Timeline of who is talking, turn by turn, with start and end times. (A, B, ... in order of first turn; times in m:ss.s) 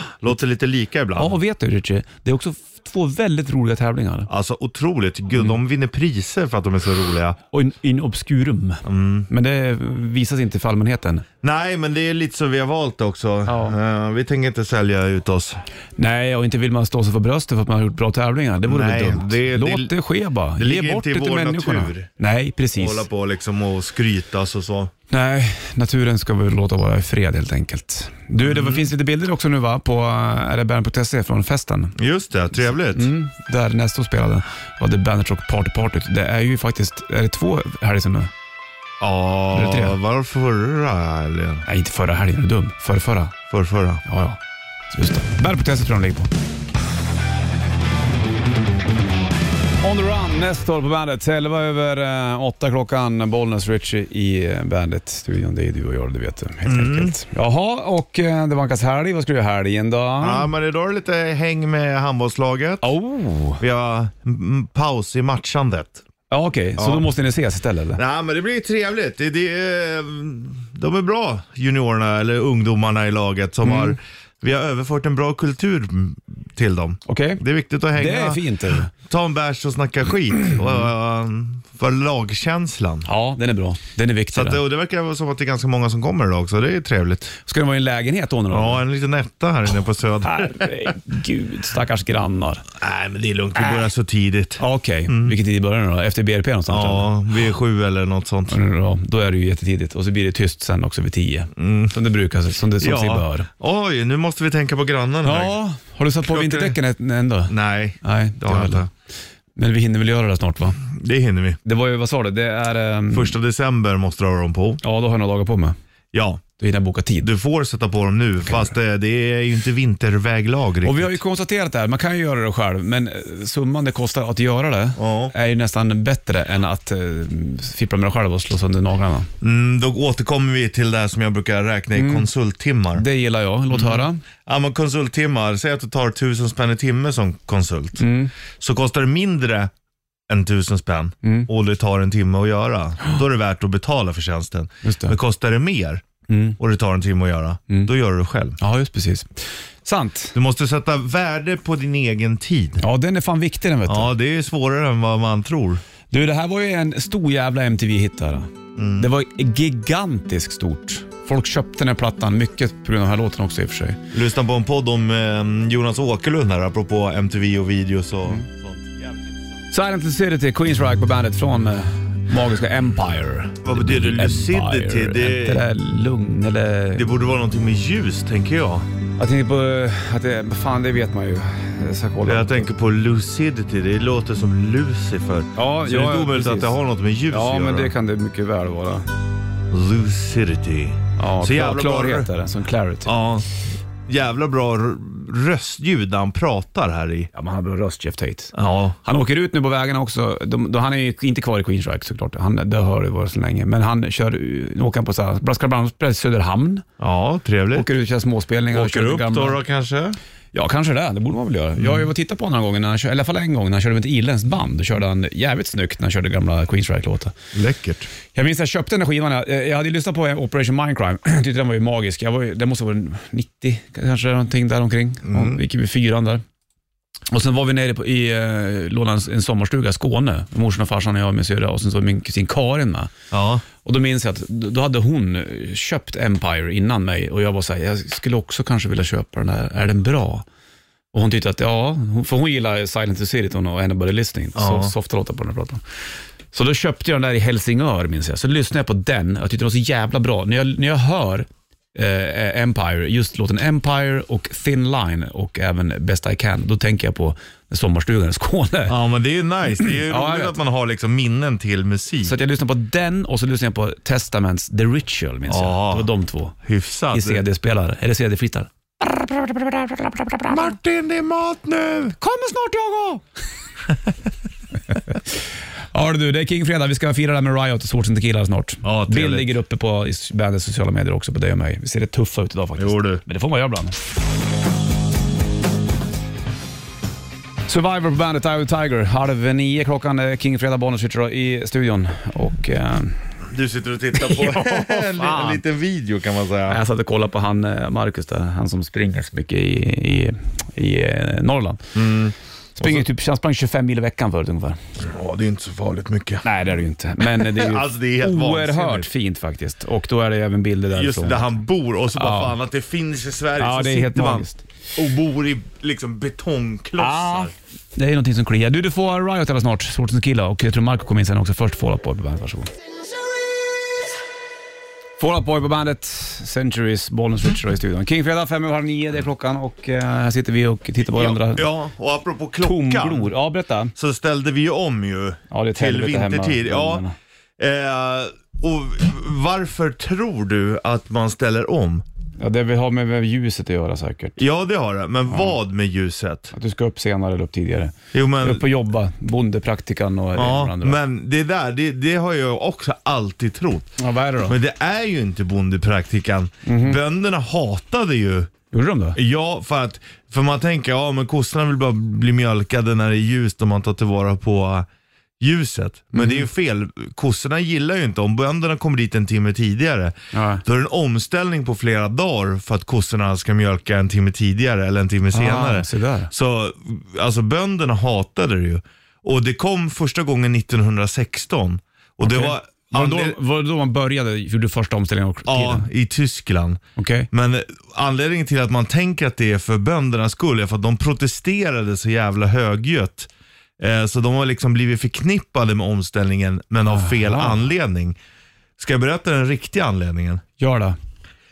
0:00.2-0:01.3 A
0:01.2-0:04.3 B
0:04.3-0:07.4 A
0:07.5-0:11.2 B
0:08.8-0:09.3 A
0:11.4-0:15.6 A
0:13.5-0:13.8 B
0:16.0-0:23.0 B
0:18.6-0:20.0 A
0:20.6-0:22.1 A
0:22.7-0:24.9 A
0:25.1-0:31.9 B
0:28.4-0:28.9 A
0:32.0-0:33.1 A
0:32.6-0:38.3 B
0:39.0-0:41.6 A
0:39.5-0:40.0 B
0:41.6-0:43.4 B
0:43.5-0:44.0 A
0:44.0-0:44.4 B
0:44.9-0:46.3 B
0:49.8-1:00.5 B
0:56.6-0:57.2 A
1:00.2-1:02.9 A
1:02.8-1:03.6 B
1:03.6-1:06.0 A
1:06.3-1:08.0 B
1:06.8-1:07.1 A
1:08.0-1:23.1 A
1:13.6-1:14.0 B
1:17.1-1:17.4 B
1:17.9-1:18.9 B
1:23.0-1:24.6 B
1:24.3-1:27.3 A
1:27.4-1:28.8 B
1:28.5-1:30.9 A
1:30.2-1:32.6 B
1:32.8-1:35.4 A
1:34.6-1:37.1 B
1:36.7-1:38.6 A
1:38.5-1:43.5 B
1:41.6-1:42.0 A
1:42.8-1:45.6 A
1:45.2-1:48.9 B
1:46.2-1:46.8 A
1:47.5-1:48.9 A
1:49.6-1:50.8 B
1:50.8-1:51.6 A
1:51.6-1:53.3 B
1:53.1-1:54.8 A
1:54.8-1:55.8 B
1:56.1-1:56.4 A
1:56.6-1:57.3 B
1:57.2-2:01.2 A
2:00.8-2:09.3 B
2:05.0-2:05.3 A
2:09.4-2:13.0 A
2:11.9-2:12.3 B
2:12.9-2:14.2 B
2:13.7-2:19.7 A
2:18.0-2:18.3 B
2:20.3-2:26.0 A
2:21.2-2:21.5 B
2:24.8-2:25.2 B
2:26.3-2:26.6 B
2:26.6-2:28.6 A
2:28.6-2:30.3 B
2:30.3-2:32.8 A
2:32.8-2:34.1 B
2:33.9-2:35.8 A
2:36.1-2:44.0 B
2:38.8-2:39.1 A
2:44.1-2:49.2 A
2:49.7-2:57.1 B
2:53.6-2:55.7 A
2:56.9-2:58.9 A
2:59.2-3:02.7 B
3:02.2-3:07.9 A
3:05.6-3:06.8 B
3:07.3-3:09.1 B
3:09.7-3:12.3 A
3:11.2-3:13.1 B
3:13.0-3:13.4 A
3:14.1-3:17.3 A
3:17.3-3:26.8 B
3:18.5-3:19.0 A
3:27.0-3:27.9 A
3:27.7-3:29.6 B
3:28.7-3:30.2 A
3:30.5-3:37.3 B
3:31.8-3:32.0 A
3:37.5-3:38.1 A
3:38.3-3:46.4 B
3:45.2-3:45.6 A
3:47.3-3:53.1 B
3:53.3-3:53.6 A
3:53.8-4:00.4 B
4:01.1-4:05.8 B
4:04.6-4:04.9 A
4:06.5-4:19.0 B
4:18.9-4:22.3 A
4:20.0-4:20.6 B
4:22.2-4:26.6 B
4:25.5-4:26.1 A
4:26.6-4:27.4 A
4:27.1-4:30.7 B
4:30.5-4:32.2 A
4:32.2-4:33.2 B
4:35.9-4:43.9 B
4:38.8-4:39.6 A
4:42.8-4:43.2 A
4:47.7-4:53.3 B
4:53.5-4:56.8 A
4:54.2-4:55.6 B
4:56.7-5:01.9 B
5:01.9-5:03.0 A
5:02.8-5:04.8 B
5:05.0-5:06.4 A
5:06.4-5:11.6 B
5:07.3-5:09.1 A
5:10.9-5:17.5 A
5:12.1-5:12.6 B
5:13.6-5:14.6 B
5:17.0-5:22.7 B
5:25.2-5:31.7 B
5:31.1-5:33.3 A
5:32.6-5:33.9 B
5:33.9-5:37.0 A
5:35.5-5:37.1 B
5:37.6-5:42.0 A
5:42.4-5:44.4 B
5:44.4-5:46.5 A
5:46.5-5:51.0 B
5:48.1-5:48.6 A
5:50.3-5:58.5 A
5:54.0-5:54.6 B
5:56.6-5:57.0 B
5:58.7-5:59.2 B
5:59.1-6:04.9 A
6:05.4-6:23.4 A
6:06.1-6:06.4 B
6:10.3-6:10.6 B
6:15.3-6:16.3 B
6:22.2-6:25.9 B
6:25.4-6:38.2 A
6:27.0-6:27.3 B
6:36.9-6:37.6 B
6:38.8-6:40.4 A
6:40.6-6:41.0 B